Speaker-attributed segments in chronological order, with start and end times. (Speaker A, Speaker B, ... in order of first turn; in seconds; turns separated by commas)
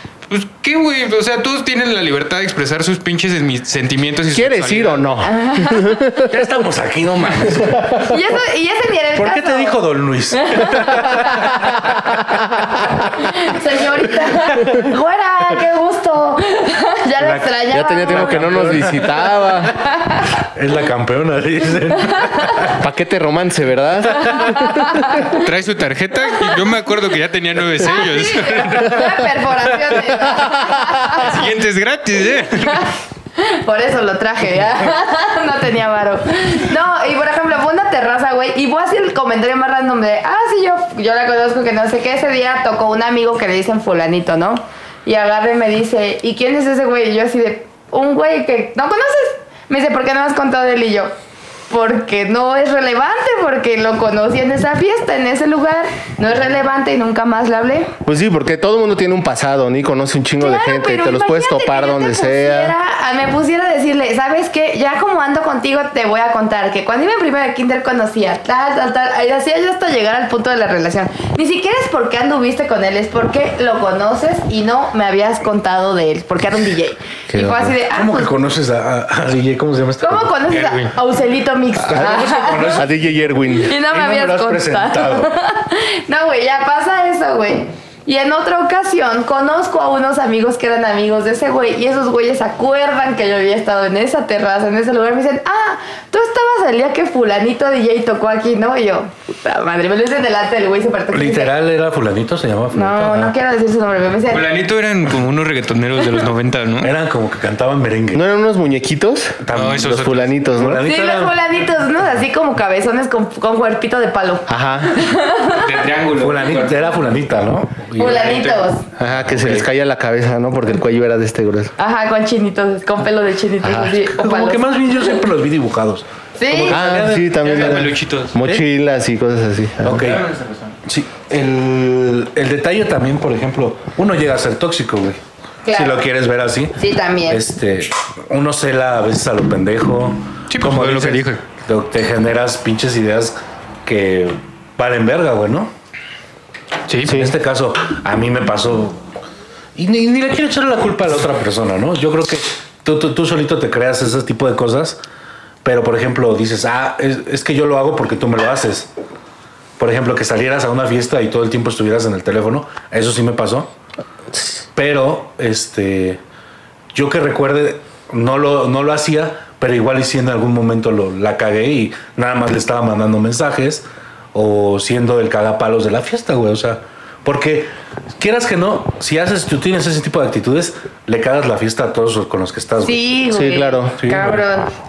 Speaker A: 0.3-5.1, Speaker B: 4.3-6.3, Speaker C: 5.3-6.0, Speaker D: 6.2-8.2, Speaker C: 8.0-9.8, Speaker D: 9.2-12.8, Speaker C: 10.3-11.5, Speaker B: 12.6-12.9, Speaker C: 13.2-18.7, Speaker D: 14.4-14.8, Speaker D: 17.2-19.7, Speaker B: 17.7-19.8, Speaker C: 19.8-20.3, Speaker D: 20.4-22.8, Speaker B: 22.8-25.3, Speaker D: 24.1-24.7, Speaker C: 24.4-25.3, Speaker A: 25.2-29.2, Speaker C: 27.8-31.5, Speaker A: 31.0-32.9, Speaker C: 32.6-51.1, Speaker C: 51.7-57.9, Speaker B: 58.0-62.7, Speaker C: 60.4-78.3, Speaker B: 77.3-77.8, Speaker D: 77.9-80.3, Speaker C: 80.0-82.8, Speaker A: 80.5-80.9, Speaker D: 81.8-85.3, Speaker B: 82.7-83.8, Speaker C: 83.6-101.5, Speaker D: 101.1-103.3, Speaker C: 102.7-104.5, Speaker A: 104.3-106.9, Speaker D: 106.8-108.2, Speaker B: 108.1-110.8, Speaker D: 109.4-111.4, Speaker A: 109.5-110.3, Speaker C: 110.8-115.7, Speaker B: 114.5-115.0, Speaker A: 115.5-117.0, Speaker D: 116.2-118.5, Speaker C: 118.0-118.8, Speaker A: 118.1-118.7, Speaker B: 119.0-121.7, Speaker D: 119.1-119.7, Speaker C: 121.8-124.6, Speaker B: 123.6-124.0, Speaker D: 124.1-128.6, Speaker C: 126.4-126.9, Speaker B: 126.7-130.2, Speaker A: 127.4-128.4, Speaker D: 129.8-130.3, Speaker A: 130.3-130.7, Speaker D: 130.8-145.7, Speaker C: 135.6-136.0, Speaker C: 136.8-137.4, Speaker A: 140.5-141.4, Speaker A: 146.9-147.2, Speaker D: 147.0-149.0, Speaker B: 147.1-147.3, Speaker D: 149.8-155.0, Speaker D: 155.6-158.9, Speaker D: 159.8-163.7, Speaker D: 164.7-166.2, Speaker D: 166.9-183.0, Speaker C: 182.8-184.7, Speaker B: 183.3-184.0, Speaker D: 184.0-184.4